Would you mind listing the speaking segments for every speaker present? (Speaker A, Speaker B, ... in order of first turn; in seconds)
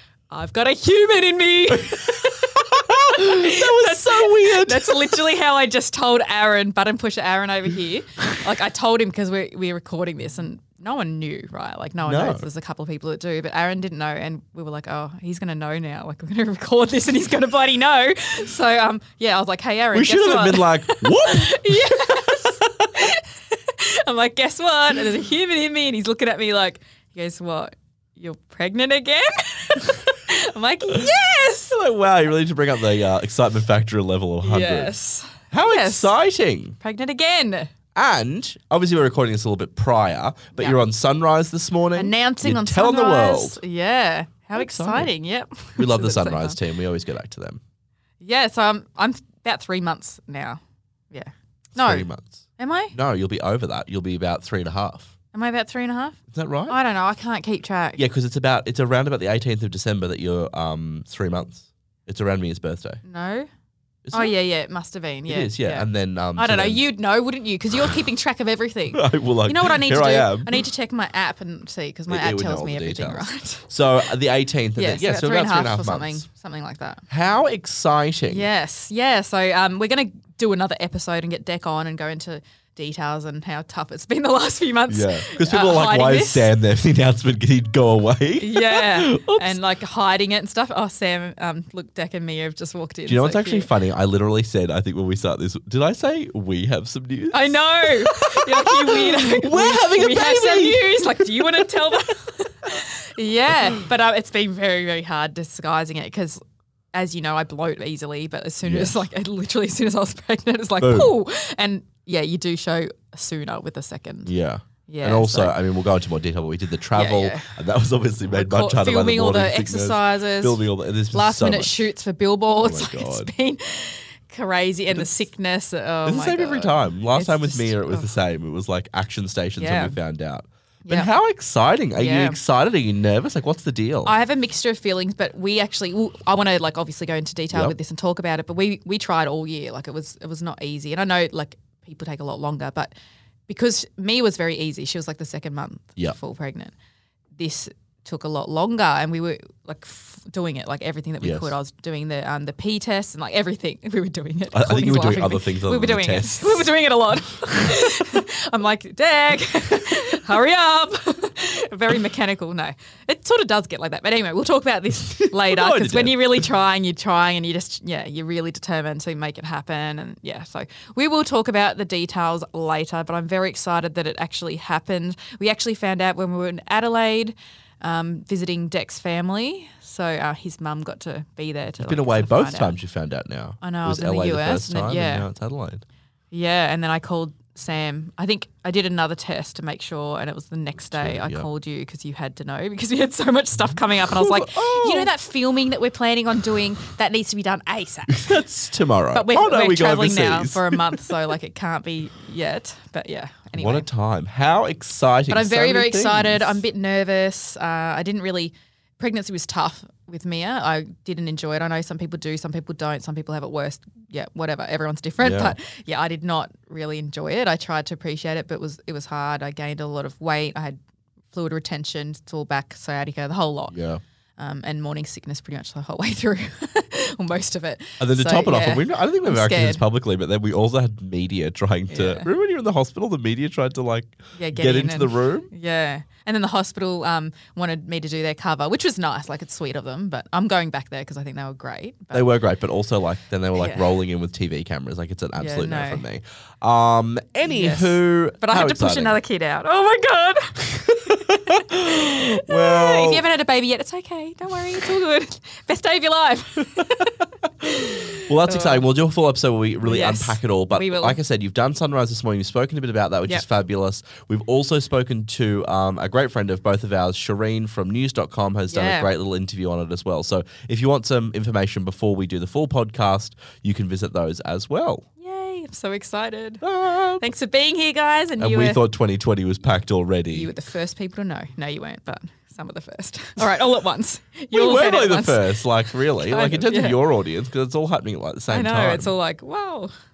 Speaker A: 0.3-31.8, 34.4-36.1, 36.8-37.7, 40.5-40.8, 42.0-46.6, 48.2-50.6, 51.1-52.9, 55.3-58.0, 63.0-63.5, 64.1-73.7, 74.8-77.0, 78.3-86.5, 88.4-93.7, 97.3-106.4, 106.9-114.3, 114.9-115.5, 116.9-117.5, 118.3-128.1, 129.6-130.0, 130.8-131.1, 131.9-132.4, 134.0-142.9, 143.5-146.7, 147.4-182.8, 183.6-185.3, 186.3-198.4, 199.1-203.9, 205.3-220.8, 221.3-223.8, 224.4-229.8, 231.9-232.3, 234.3-242.3, 243.5-244.0, 245.3-246.0, 247.4-258.8, 259.8-261.2, 268.7-269.1, 275.2-276.6, 277.2-278.8, 280.3-285.5, 286.1-287.0, 288.5-289.9
Speaker B: 2.7-5.2, 12.0-12.5, 19.9-22.4, 31.7-34.9, 35.5-36.8, 37.9-43.6, 44.5-45.1, 45.8-47.6, 51.8-55.1, 56.3-56.8, 58.0-63.0, 64.0-64.3, 65.3-66.8, 68.9-70.5, 72.1-76.2, 77.1-78.5, 84.9-89.6, 93.1-101.6, 108.6-109.0, 110.8-111.1, 114.2-121.9, 122.6-123.3, 126.0-134.1, 151.2-151.5, 154.5-156.7, 165.2-166.5, 181.8-185.8, 190.9-191.5, 194.1-195.1, 198.1-201.0, 203.6-206.6, 215.2-215.6, 223.7-224.0, 228.0-235.5, 242.1-249.2, 251.3-253.2, 258.2-275.0, 276.6-277.2, 278.4-280.5, 284.5-289.1